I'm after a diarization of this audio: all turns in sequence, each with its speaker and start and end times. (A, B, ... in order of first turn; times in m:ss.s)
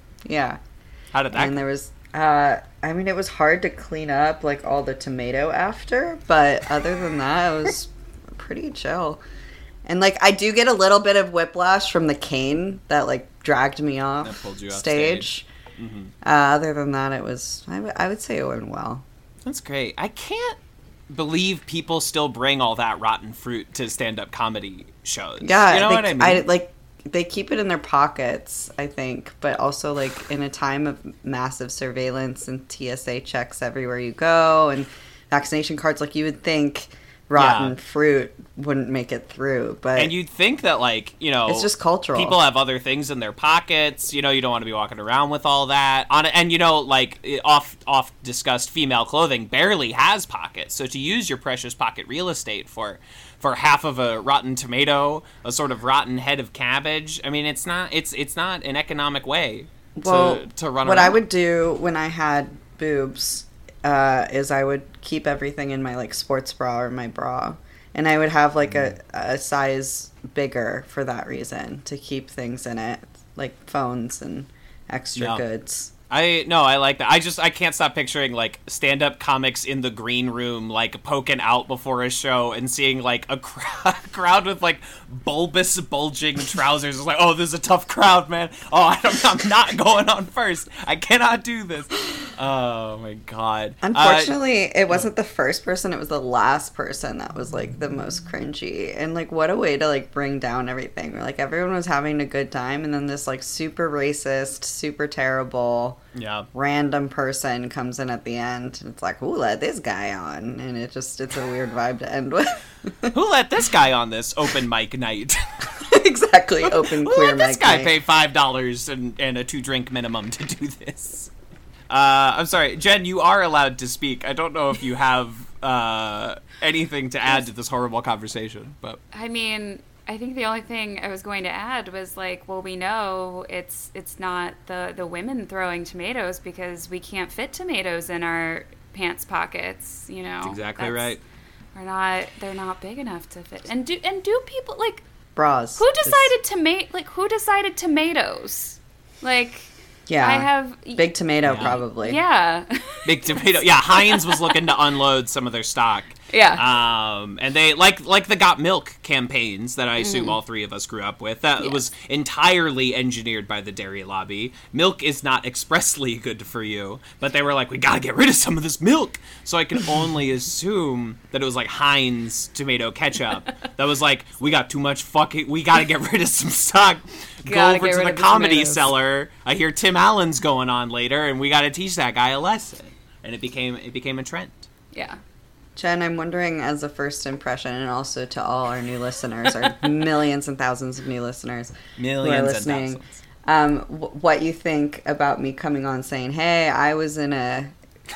0:00.2-0:00.6 A
0:01.1-0:01.6 B
0:01.3-0:09.2 A
0:09.8-0:15.5 A
0:14.2-0:16.1 B
0:16.2-0:19.0 A
0:19.4-0:20.6 B
0:21.1-0:26.5 B
0:25.4-0:40.1 A
0:37.4-0:37.8 B
0:40.0-1:01.2 B
0:41.5-0:42.4 A
1:00.0-1:15.9 A
1:15.2-1:15.4 B
1:16.1-1:34.3 B
1:33.8-1:46.0 A
1:46.2-1:46.5 B
1:46.5-1:53.1 A
1:53.1-1:55.7 B
1:55.8-1:57.9 A
1:56.6-2:01.3 B
2:01.9-2:09.0 B
2:09.1-2:21.2 C
2:20.4-2:21.2 B
2:21.7-2:25.0 C
2:25.4-2:26.3 A
2:25.8-2:29.7 C
2:30.1-2:32.2 A
2:30.2-2:31.1 C
2:31.4-2:31.8 B
2:32.0-2:34.7 C
2:33.1-3:04.7 B
2:36.3-2:36.6 C
2:40.0-2:40.4 C
2:57.4-2:58.9 C
3:04.9-3:05.2 C
3:05.8-3:17.7 A
3:12.0-3:13.2 B